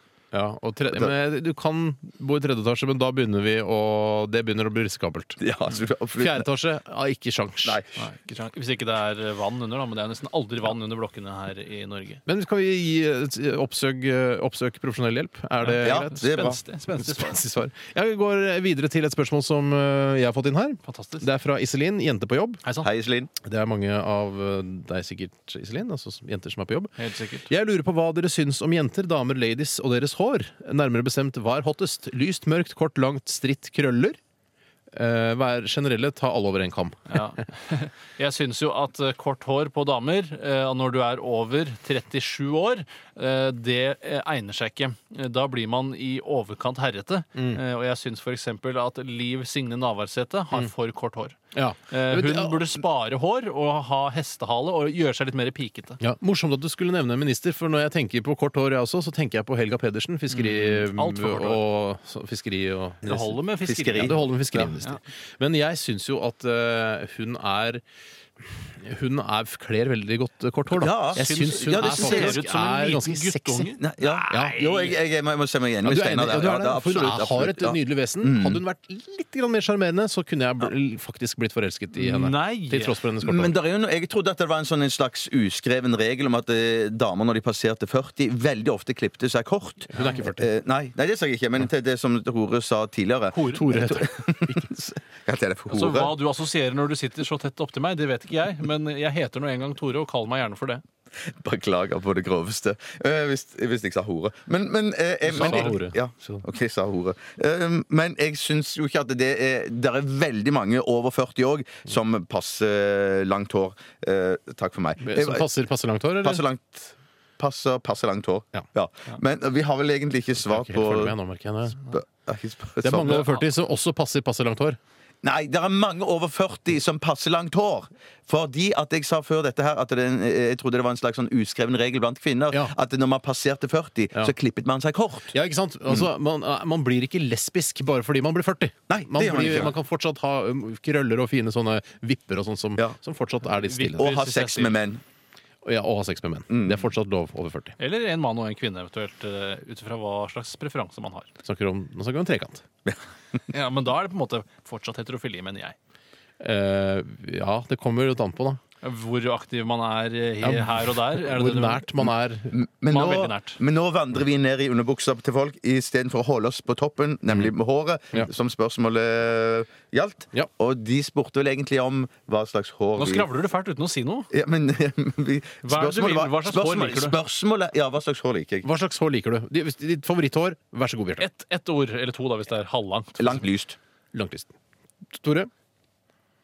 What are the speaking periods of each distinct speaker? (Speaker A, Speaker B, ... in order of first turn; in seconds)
Speaker A: 0.3-5.4, 6.2-7.8, 12.3-22.6, 23.4-26.9, 27.5-34.2, 34.9-37.2, 51.5-52.7, 56.0-63.4, 64.0-67.8, 68.6-75.0, 75.8-83.5, 89.9-90.5, 93.5-94.7, 105.2-106.4, 115.0-116.4, 120.4-121.8, 122.8-124.8, 135.3-144.1, 145.6-147.8, 151.4-152.6, 156.4-158.6, 160.4-162.5, 178.6-181.2, 184.1-184.5, 185.1-185.5
Speaker B: 5.4-6.4, 7.6-8.1, 15.8-16.6, 22.8-23.3, 63.6-64.7, 70.7-72.4, 73.8-78.6, 83.2-96.1, 101.2-115.5, 116.2-121.2, 121.8-123.3, 125.2-135.3, 138.9-139.8, 144.0-145.0, 146.5-146.8, 162.0-173.3, 174.3-178.7, 183.2-183.8
Speaker C: 8.0-12.2, 15.6-17.4, 20.8-21.3, 22.6-22.9, 27.0-27.5, 37.1-51.4, 51.9-56.0, 60.3-61.6, 63.0-64.2, 71.1-73.8, 82.0-83.0, 93.3-93.6, 95.7-100.8, 105.3-105.7, 123.0-123.5, 143.5-144.8, 147.8-151.3, 153.5-155.8, 158.8-161.8, 162.9-163.6, 172.9-174.3, 175.6-177.2, 181.2-183.5